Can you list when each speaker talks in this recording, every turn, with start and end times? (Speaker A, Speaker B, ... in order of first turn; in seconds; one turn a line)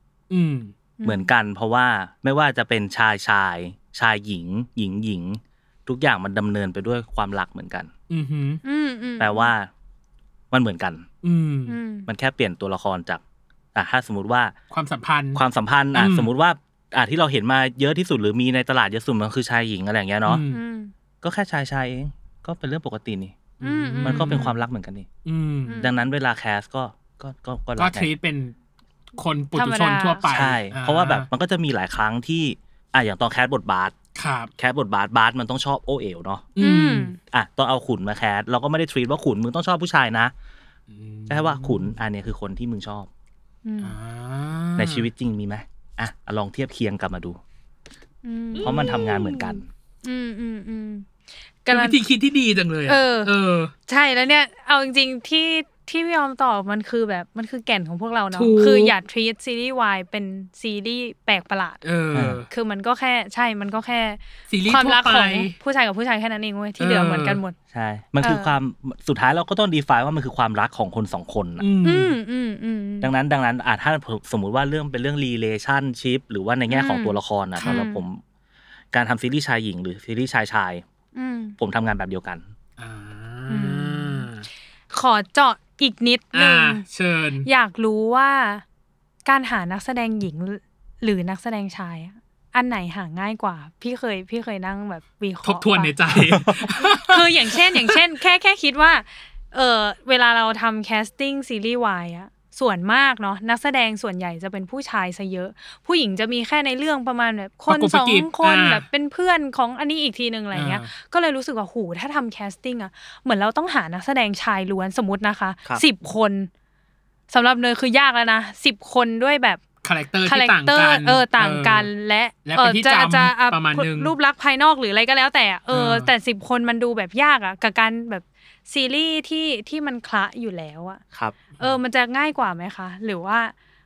Speaker A: 0.3-0.7
Speaker B: 1.0-1.3
Speaker C: 1.0-7.9
Speaker A: 8.1-8.6
Speaker B: 8.6-9.5
Speaker C: 9.2-9.7
Speaker C: 10.5-11.1
Speaker A: 11.2-11.8
Speaker B: 11.7-12.1
Speaker C: 12.1-13.2
Speaker C: 13.7-14.6
Speaker A: 14.7-15.4
Speaker C: 15.3-20.4
Speaker A: 15.9-16.3
Speaker A: 20.2-20.6
Speaker B: 20.5-20.9
Speaker C: 21.2-23.4
Speaker A: 23.6-24.6
Speaker B: 23.6-24.5
Speaker C: 24.0-25.1
Speaker A: 25.2-25.9
Speaker B: 25.6-25.9
Speaker C: 25.8-28.1
Speaker A: 27.8-28.5
Speaker A: 29.2-31.3
Speaker B: 29.6-30.3
Speaker C: 30.3-34.0
Speaker A: 34.1-34.5
Speaker C: 34.6-36.5
Speaker A: 36.5-37.1
Speaker B: 36.6-37.2
Speaker C: 37.3-40.3
Speaker A: 40.9-42.0
Speaker C: 41.3-43.1
Speaker B: 43.6-43.9
Speaker A: 43.8-45.1
Speaker C: 44.8-47.4
Speaker B: 48.2-51.1
Speaker A: 48.5-49.1
Speaker C: 48.6-49.7
Speaker B: 51.6-52.0
Speaker A: 51.7-53.7
Speaker B: 52.9-53.3
Speaker B: 53.9-61.8
Speaker A: 58.3-58.9
Speaker A: 61.8-62.5
Speaker C: 62.1-62.4
Speaker B: 62.5-67.6
Speaker A: 64.5-65.5
Speaker A: 66.8-67.4
Speaker C: 67.7-71.7
Speaker B: 68.2-68.5
Speaker A: 71.6-72.1
Speaker B: 71.8-73.1
Speaker C: 73.0-78.2
Speaker B: 76.7-78.0
Speaker A: 77.6-77.8
Speaker C: 78.9-80.8
Speaker B: 81.1-81.6
Speaker C: 81.6-82.5
Speaker A: 82.8-84.5
Speaker B: 83.5-84.3
Speaker B: 84.9-86.8
Speaker A: 86.3-87.5
Speaker B: 87.4-88.6
Speaker B: 89.2-95.9
Speaker A: 95.4-98.0
Speaker B: 96.8-116.5
Speaker A: 107.7-108.8
Speaker A: 110.5-110.9
Speaker B: 117.3-119.6
Speaker A: 119.8-121.9
Speaker B: 120.2-131.0
Speaker A: 122.4-124.1
Speaker A: 125.7-126.1
Speaker C: 131.1-131.4
Speaker B: 131.6-133.5